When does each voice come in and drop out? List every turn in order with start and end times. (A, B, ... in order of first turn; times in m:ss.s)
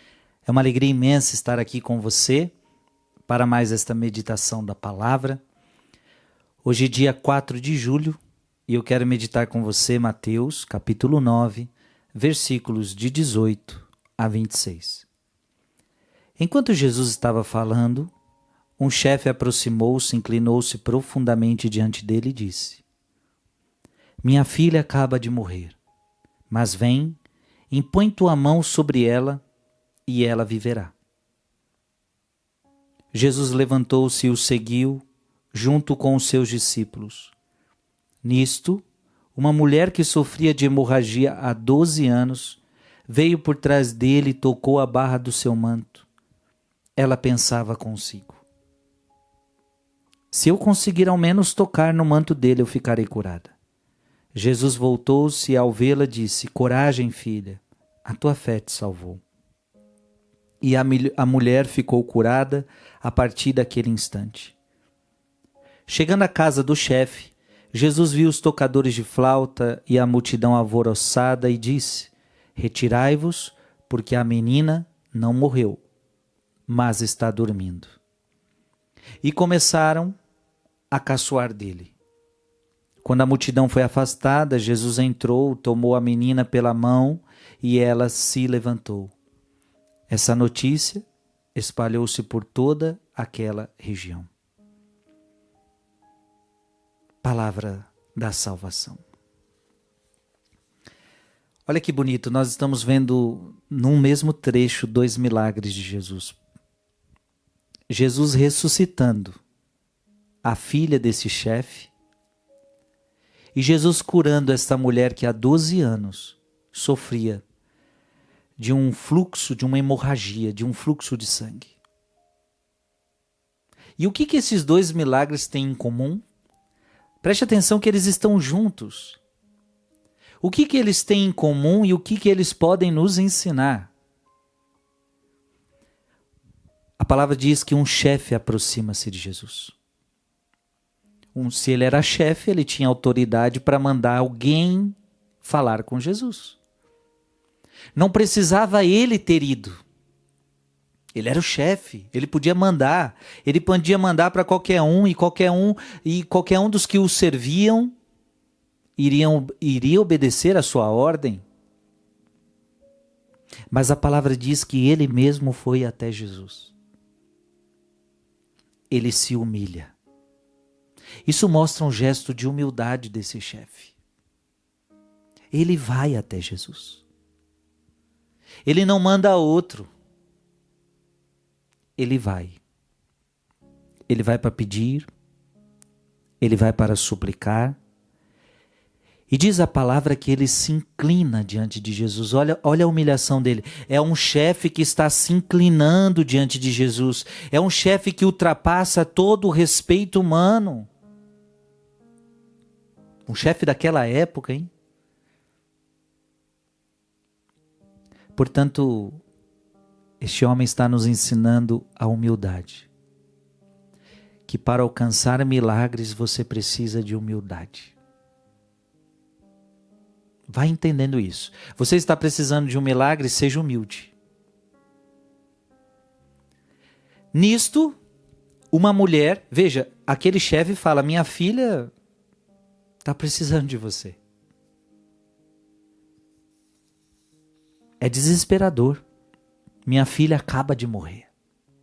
0:00.5-0:02.5 A
0:03.3-0:05.4 A
0:06.6-0:15.1 A
0:16.4-0:18.1 A
0:18.8-0:22.8 A
0:24.2-0:25.8 A
0:26.5-0:27.2 A
0:27.7-0:29.4 A
0:30.1-0:30.9 A
0:33.1-0:37.3 A
0:38.2-0:38.8 A
0:39.4-0:46.1 A
0:47.0-0:48.4 A
0:50.3-0:53.6 A
0:54.3-0:59.2 A
1:00.6-1:04.6 A
1:05.9-1:15.8 A
1:16.7-1:18.0 A
1:19.2-1:20.2 A
1:20.9-1:22.0 A
1:23.0-1:29.1 A
1:30.1-1:34.3 A
1:37.2-1:39.0 A
1:41.7-1:46.4 A
1:47.9-1:49.4 A
1:50.4-1:51.9 A
1:53.6-1:57.4 A
1:58.6-2:01.8 A
2:04.0-2:06.2 A
2:07.2-2:09.2 A
2:10.4-2:13.9 A
2:17.0-2:19.8 A
2:21.4-2:26.6 A
2:28.0-2:29.8 A
2:31.1-2:38.0 A
2:39.0-2:41.4 A
2:43.7-2:46.7 A
2:48.9-2:50.0 A
2:51.3-2:54.0 A
2:55.5-2:57.1 A
2:58.7-2:59.9 A
3:02.0-3:02.6 A
3:04.1-3:05.1 A
3:06.4-3:07.8 A
3:09.3-3:20.9 A
3:23.3-3:24.7 A
3:28.4-3:29.2 A
3:30.2-3:32.9 A
3:34.5-3:38.0 A
3:40.5-3:44.1 A
3:47.3-3:48.0 A
3:48.7-3:51.9 A
3:53.0-3:54.2 A
3:58.0-3:59.0 A
3:59.9-4:01.3 A